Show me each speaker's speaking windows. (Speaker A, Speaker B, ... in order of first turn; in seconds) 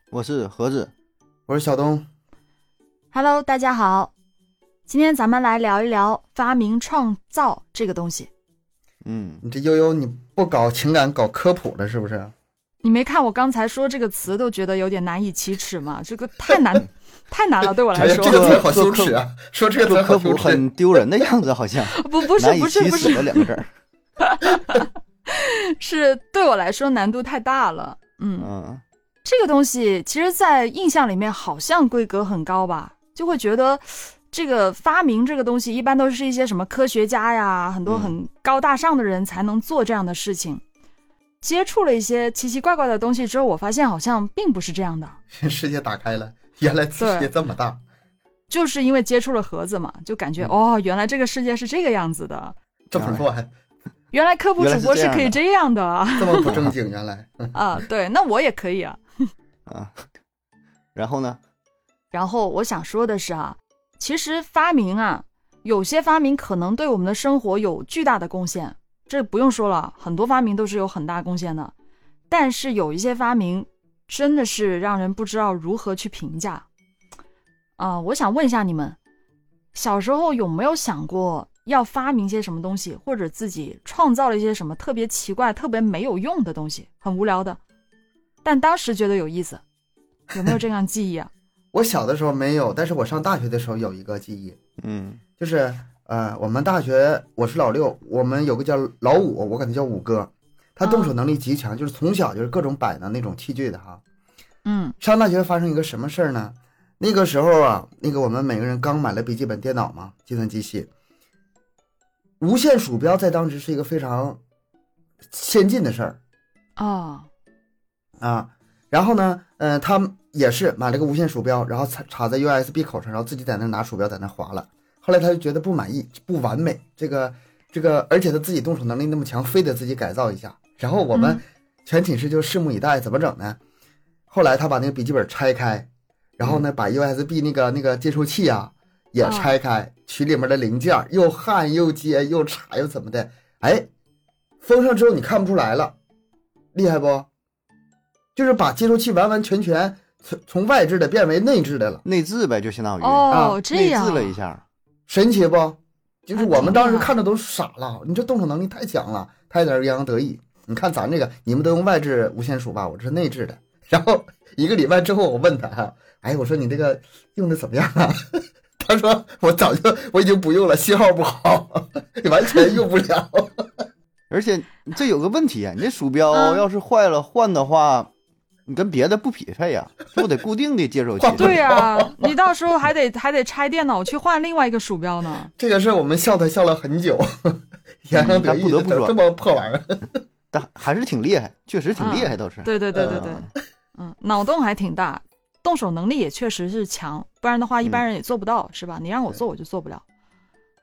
Speaker A: 0.1-0.9, 9.0-9.4, 18.0-19.2, 19.8-23.7, 28.4-28.8, 37.9-38.1, 53.0-53.2, 54.6-55.4, 56.5-56.7, 59.7-60.1, 61.0-61.4, 94.8-95.2, 152.0-154.6, 174.3-178.1, 178.7-181.6, 188.1-189.1, 190.5-193.5
Speaker B: 1.5-2.1, 9.4-12.3, 17.9-20.6, 45.3-47.8, 52.9-53.5, 56.2-57.5, 91.7-94.6, 95.4-104.0, 105.0-110.9, 112.4-114.4, 115.3-116.2, 118.2-133.6, 134.3-135.9, 136.4-143.9, 144.6-146.0, 146.7-147.3, 148.4-152.0, 153.3-153.6, 155.1-173.7, 181.2-182.3, 185.6-190.2
Speaker C: 3.1-4.1, 4.9-8.3, 12.8-18.6, 21.9-23.5, 24.2-28.5, 29.2-40.6, 41.4-45.2, 47.0-47.3, 48.5-52.5, 54.1-56.5, 57.5-59.0, 62.1-71.7, 72.3-76.7, 77.8-79.0, 79.7-87.6, 88.4-89.6, 90.3-91.3, 100.8-101.1, 104.7-105.0, 116.8-117.3, 131.1-131.4, 139.2-139.5, 153.0-154.4, 156.4-157.1, 176.3-176.6, 181.4-185.5, 192.0-200.0